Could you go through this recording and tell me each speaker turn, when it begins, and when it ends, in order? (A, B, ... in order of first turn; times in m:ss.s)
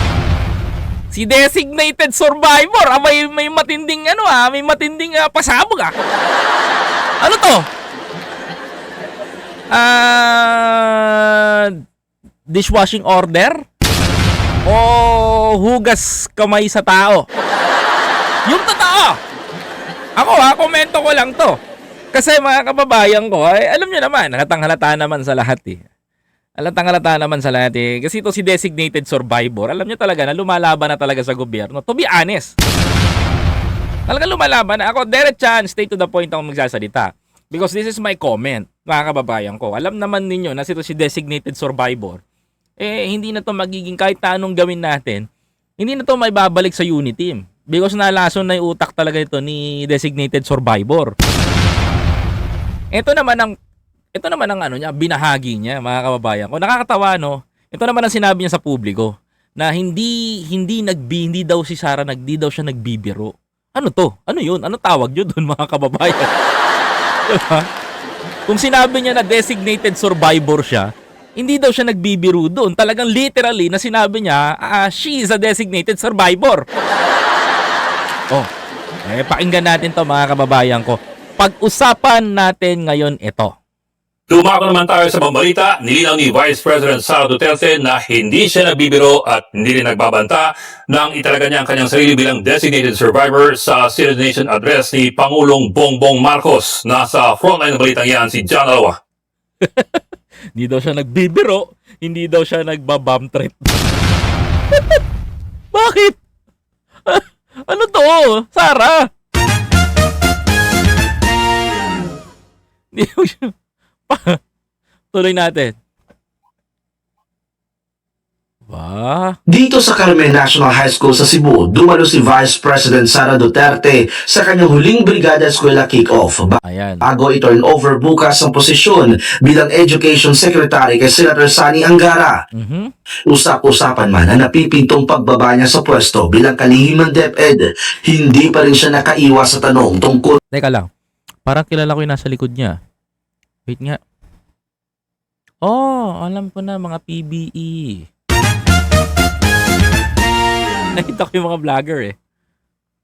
0:01.1-0:05.9 A
0:07.2-0:07.6 A
0:09.7-0:11.8 A
0:12.5-0:13.6 A
0:14.6-0:17.2 A
0:18.4-0:19.2 A
0:20.2-0:21.5 A
0:22.1-0:25.8 A
0:26.6-0:32.5 A
0:34.1-0:42.2 A
0:42.8-0:45.2 A
0:45.8-0:51.1 A
0:52.9-0:53.5 A
0:54.1-1:06.3 A
1:07.3-1:07.7 A
1:08.5-1:16.6 A
1:19.0-1:23.5 A
1:24.3-1:39.0 B
1:39.6-1:40.0 A
1:40.5-1:43.7 A
1:45.7-1:46.2 A
1:47.0-1:49.1 A
1:52.9-1:53.5 A
1:54.1-1:54.4 A
1:55.1-1:55.7 A
1:58.7-1:59.4 A
1:59.5-2:12.3 C
2:06.6-2:07.0 A
2:12.5-2:12.9 A
2:13.3-2:20.4 C
2:20.5-2:20.9 A
2:21.4-2:22.8 A
2:23.7-2:24.0 A
2:25.6-2:28.1 A
2:31.0-2:32.1 A